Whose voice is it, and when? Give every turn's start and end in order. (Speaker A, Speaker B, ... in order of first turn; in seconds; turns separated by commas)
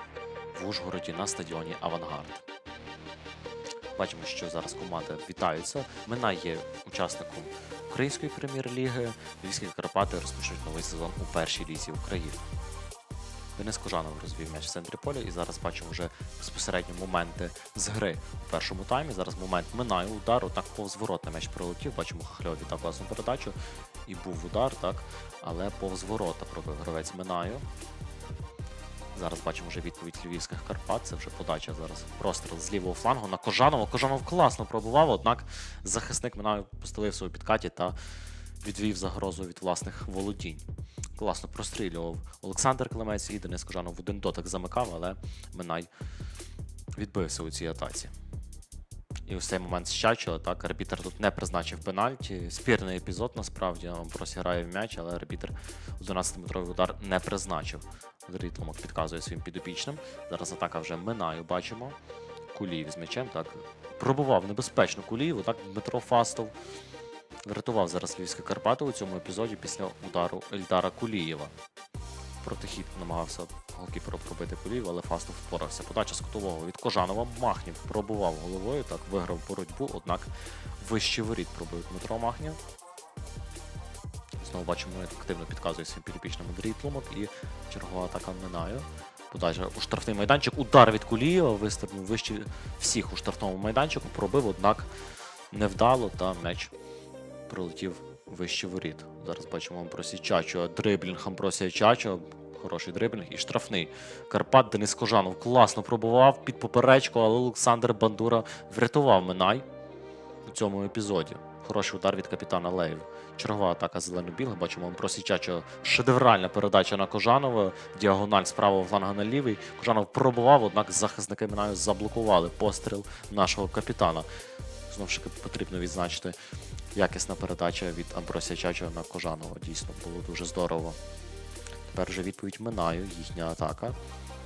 Speaker A: 0.5-2.5, Speaker A: 4.0-12.4, Speaker A: 13.6-27.6, Speaker A: 29.1-38.0, Speaker A: 38.6-40.6, Speaker A: 41.2-45.9, Speaker A: 47.0-48.1, Speaker A: 49.3-62.0, Speaker A: 62.5-66.5, Speaker A: 67.5-71.5, Speaker A: 72.4-82.6, Speaker A: 84.4-94.9, Speaker A: 95.5-96.7, Speaker A: 97.5-109.7, Speaker A: 110.5-124.3, Speaker A: 124.9-126.4, Speaker A: 127.0-131.0, Speaker A: 131.9-134.0